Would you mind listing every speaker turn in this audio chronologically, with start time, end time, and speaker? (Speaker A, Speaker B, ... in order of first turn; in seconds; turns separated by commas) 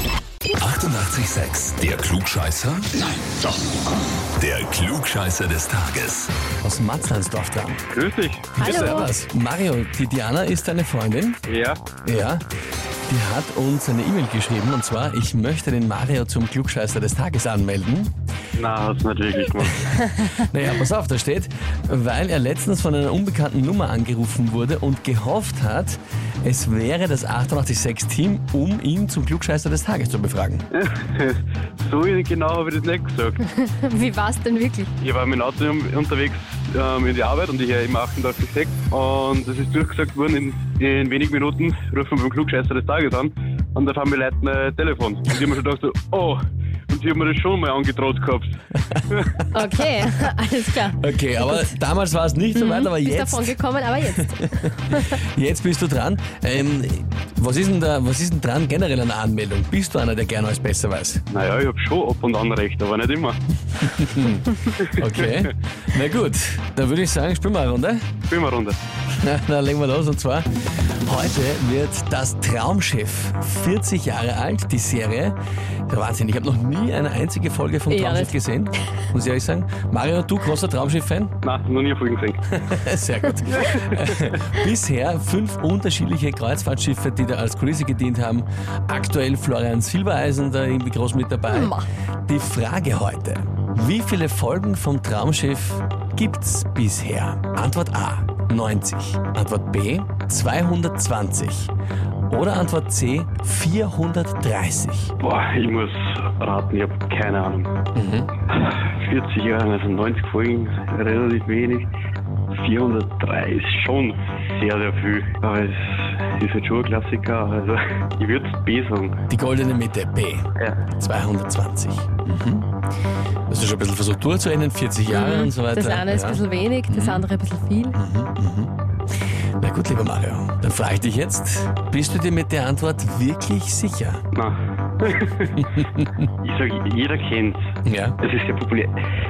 Speaker A: 0.5-3.5, Speaker A: 4.2-6.3, Speaker B: 6.6-7.8, Speaker C: 7.9-9.0, Speaker B: 8.6-11.4, Speaker D: 8.6-9.1, Speaker C: 11.4-11.8, Speaker B: 12.1-12.4, Speaker B: 13.1-18.1, Speaker C: 18.6-20.1, Speaker B: 20.2-30.7, Speaker C: 30.7-33.4, Speaker D: 33.4-34.9, Speaker C: 35.0-48.5, Speaker C: 49.1-49.4, Speaker D: 49.5-51.7, Speaker B: 51.0-61.2, Speaker D: 52.5-55.1, Speaker C: 61.3-63.4, Speaker B: 63.8-68.1, Speaker C: 64.8-65.5, Speaker C: 68.3-68.8, Speaker B: 69.1-75.4, Speaker B: 75.9-81.3, Speaker D: 77.9-78.4, Speaker C: 81.4-82.4, Speaker B: 82.5-101.7, Speaker C: 83.5-84.4, Speaker D: 91.5-91.9, Speaker B: 102.3-105.1, Speaker C: 105.2-107.7, Speaker B: 108.0-108.3, Speaker C: 108.5-111.9, Speaker C: 112.5-119.2, Speaker B: 119.3-122.7, Speaker C: 120.6-120.9, Speaker B: 123.5-127.3, Speaker D: 125.1-128.0, Speaker B: 127.9-128.7, Speaker B: 129.6-134.2, Speaker C: 134.3-135.7, Speaker B: 135.8-136.2, Speaker C: 136.4-137.7, Speaker B: 137.8-138.2, Speaker C: 138.2-139.0